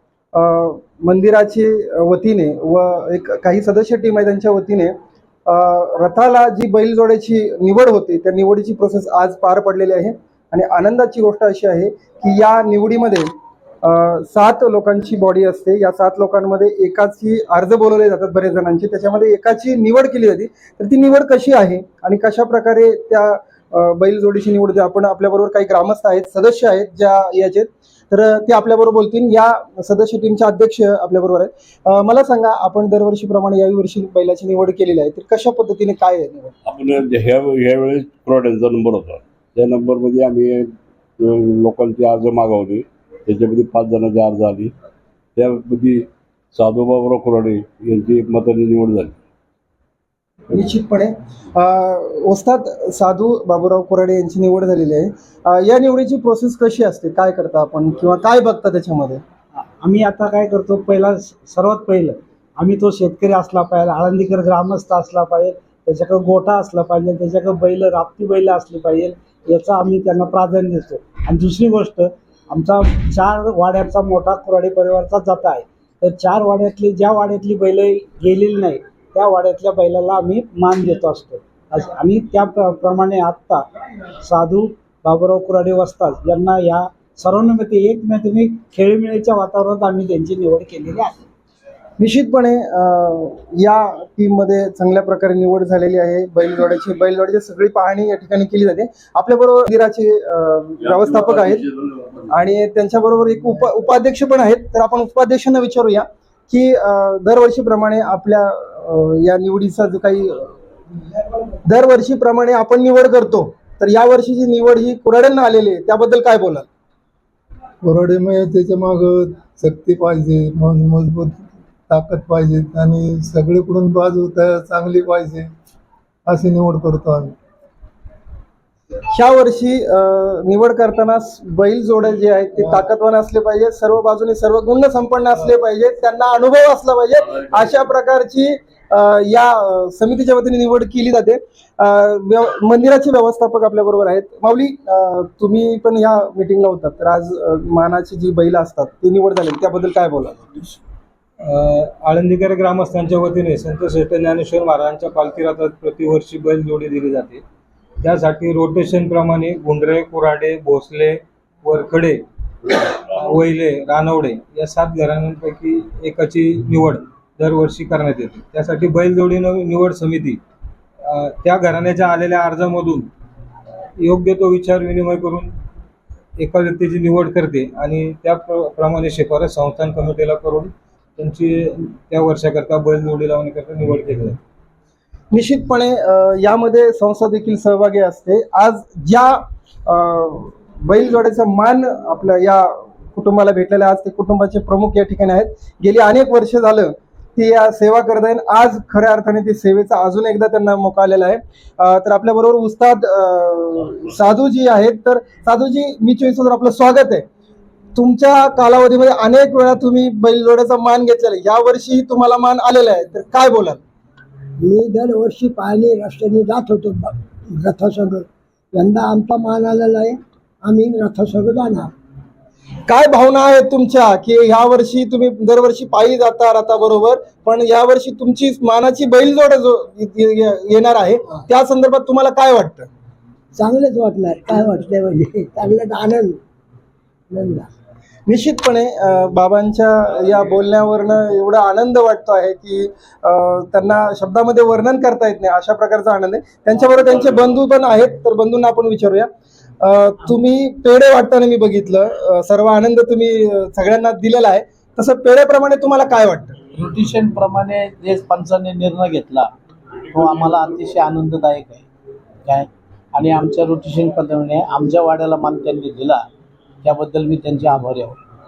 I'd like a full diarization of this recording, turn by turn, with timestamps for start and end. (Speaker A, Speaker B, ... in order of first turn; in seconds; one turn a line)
Speaker A: 0.3-4.9
Speaker A: 5.5-13.3
Speaker A: 13.8-36.5
Speaker B: 36.7-44.7
Speaker B: 45.4-49.1
Speaker A: 50.5-59.2
Speaker C: 59.8-83.6
Speaker C: 84.2-91.2
Speaker A: 92.0-101.7
Speaker B: 100.8-102.2
Speaker A: 102.3-110.5
Speaker A: 111.6-116.7
Speaker D: 117.8-125.5
Speaker D: 126.3-127.3
Speaker A: 129.1-150.8
Speaker E: 151.4-157.4
Speaker E: 158.0-162.2
Speaker E: 162.9-170.4
Speaker E: 171.0-173.1
Speaker E: 174.0-175.5
Speaker E: 176.4-184.4
Speaker A: 185.3-207.2
Speaker A: 207.9-213.8
Speaker F: 214.6-221.9
Speaker A: 222.9-232.9
Speaker F: 233.5-236.4
Speaker F: 237.3-237.7
Speaker A: 238.3-249.3
Speaker A: 249.8-256.6
Speaker G: 256.7-259.5
Speaker G: 260.1-261.8
Speaker G: 262.4-266.2
Speaker G: 266.8-268.2